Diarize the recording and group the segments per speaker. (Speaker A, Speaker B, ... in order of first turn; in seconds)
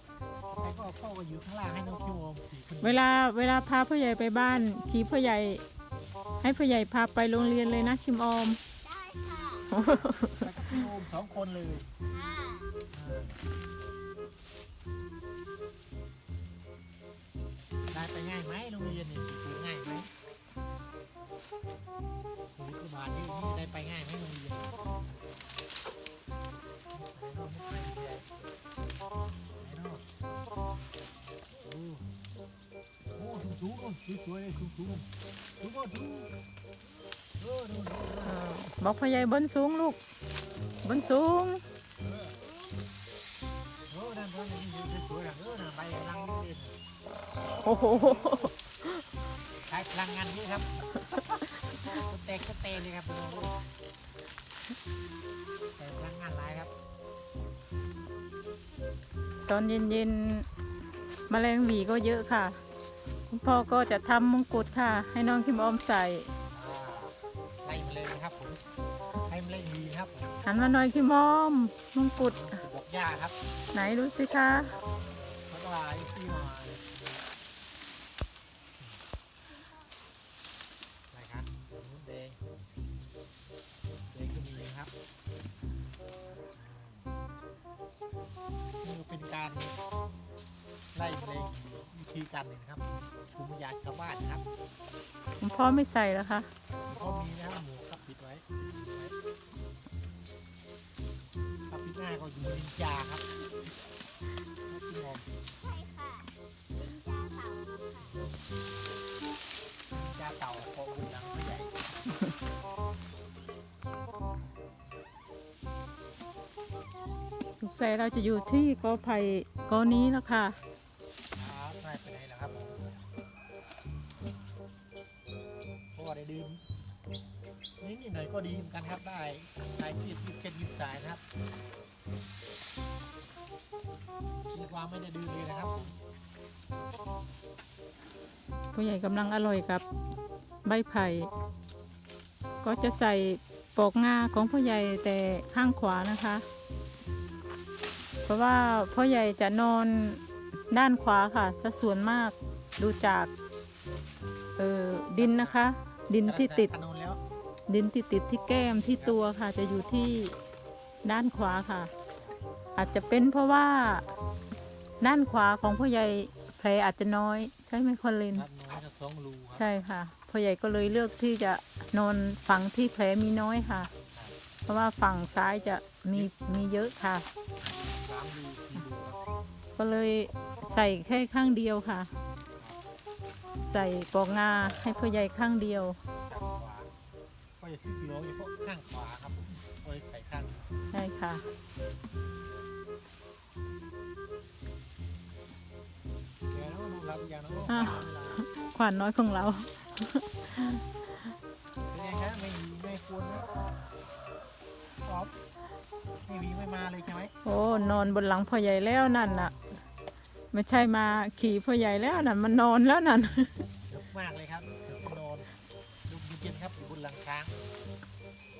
Speaker A: 0.5-3.1, 10.3-11.9, 12.9-13.4, 17.9-20.1, 22.5-24.9, 26.9-28.3, 29.6-30.0, 31.5-32.1, 33.1-35.1, 35.6-36.3, 37.4-38.4, 42.0-42.4, 43.9-46.8, 47.9-48.5, 49.7-51.0, 51.9-53.6, 55.8-56.7, 66.5-68.6, 69.2-70.3, 72.2-73.3, 75.5-77.2, 81.1-82.4, 84.1-84.9, 86.5-87.1, 88.8-89.8, 90.9-94.4, 96.9-99.2, 101.7-103.2, 104.7-105.3, 109.9-111.7, 121.4-123.0, 126.0-126.6, 127.8-131.2, 134.5-136.0, 155.2-155.6, 156.2-157.2, 168.3-169.6, 177.6-179.2, 186.3-186.9, 187.6-190.7, 196.5-198.4, 201.9-203.5, 205.0-205.3, 206.2-207.3, 213.9-215.5, 216.1-217.5
Speaker B: 2.8-5.6, 6.4-8.6, 9.7-10.4, 38.2-40.0, 40.8-41.6, 47.6-48.5, 59.5-60.5, 61.3-62.6, 63.3-66.3, 70.4-72.6, 73.7-74.8, 95.4-96.5, 117.6-120.6, 138.7-139.8, 140.6-141.3, 142.6-146.4, 148.2-153.3, 154.6-156.7, 157.7-160.4, 161.0-161.9, 162.8-164.0, 165.0-168.4, 169.6-173.9, 174.7-177.3, 179.8-182.1, 183.6-186.0, 190.9-191.4, 197.7-200.8, 207.4-209.5, 210.5-213.5
Speaker C: 8.8-9.7, 12.0-12.7, 105.6-108.3